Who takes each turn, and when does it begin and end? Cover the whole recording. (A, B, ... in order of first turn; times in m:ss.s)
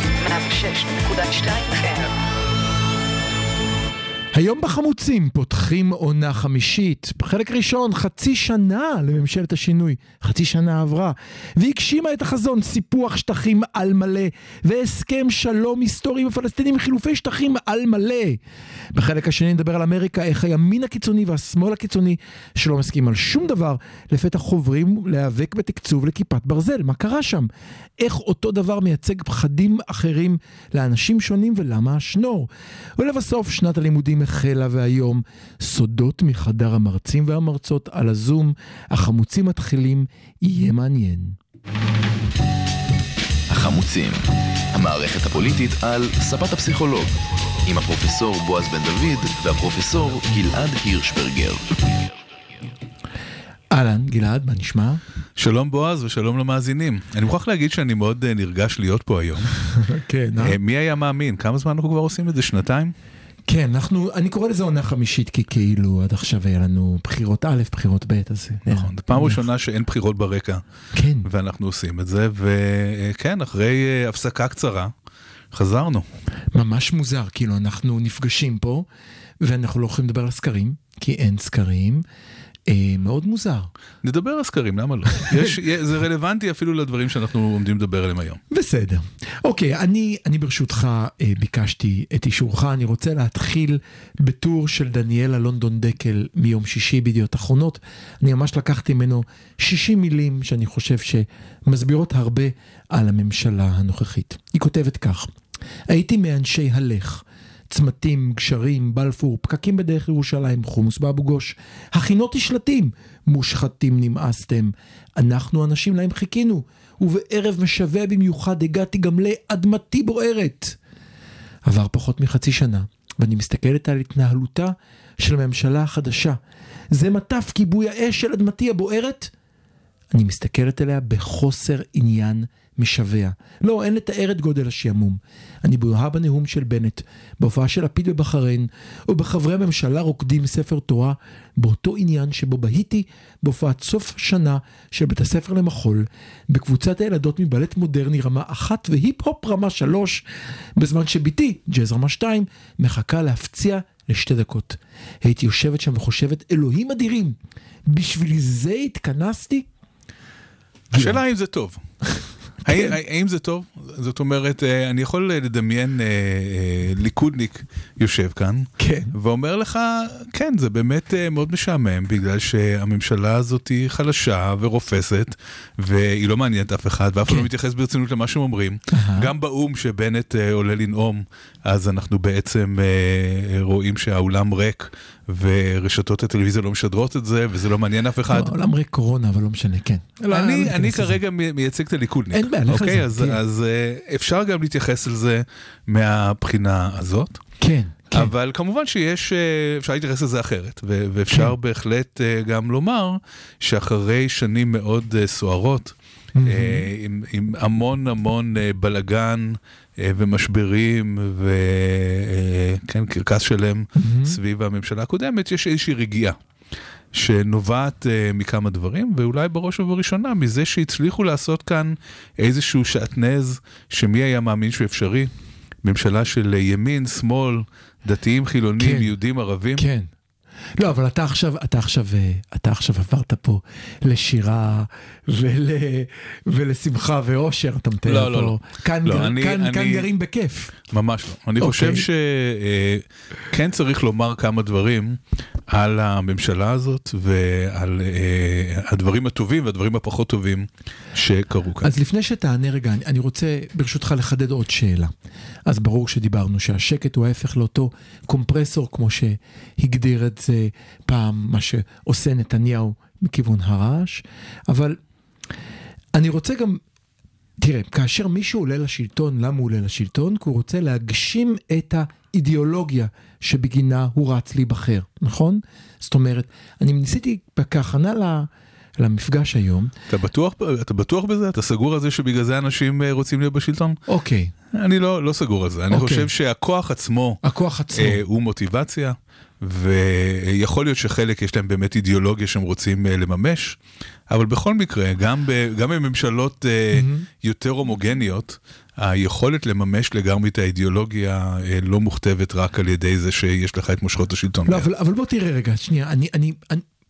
0:00.2-0:02.1 A
0:04.3-0:18.4 B
0:18.9-0:41.4 B
0:43.5-0:47.1 C
0:47.6-0:51.7 C
0:53.7-0:55.0 B
0:55.4-0:59.5 D
0:59.6-1:00.6 B
1:00.4-1:02.9 D
1:03.5-1:09.4 B
1:08.7-1:10.6 D
1:10.9-1:11.3 B
1:11.2-1:14.9 D
1:15.5-1:16.0 D
1:16.5-1:18.9 B
1:19.4-1:22.0 B
1:22.7-1:23.7 B
1:24.0-1:28.4 D
1:25.2-1:25.5 B
1:28.5-1:45.3 B
1:45.9-2:00.8 B
2:01.6-2:06.4 B
2:06.9-2:09.3 B
2:10.1-2:30.2 B
2:30.8-2:37.4 B
2:37.9-2:39.6 B
2:40.9-2:41.2 B
2:40.9-2:41.8 D
2:42.1-2:42.9 B
2:42.6-3:08.6 D
2:48.8-2:49.1 B
2:58.9-2:59.3 B
3:08.3-3:11.2 B
3:10.3-3:17.4 D
3:12.3-3:13.4 B
3:17.6-3:18.3 B
3:18.1-3:36.4 D
3:26.3-3:26.9 B
3:34.0-3:34.4 B
3:37.1-3:45.3 D
3:45.8-3:49.9 D
3:48.8-3:49.1 B
3:49.7-3:50.1 B
3:50.8-4:00.7 B
3:58.0-4:00.1 D
4:00.8-4:11.9 D
4:01.6-4:02.0 B
4:11.8-4:15.1 B
4:15.6-4:25.0 B
4:26.1-4:26.8 B
4:27.6-4:39.9 B
4:40.1-4:44.0 D
4:44.1-4:44.5 B
4:44.7-4:47.4 D
4:45.9-4:46.3 B
4:47.4-4:48.2 B
4:47.9-5:04.9 D
4:56.9-4:57.3 B
5:04.6-5:06.8 B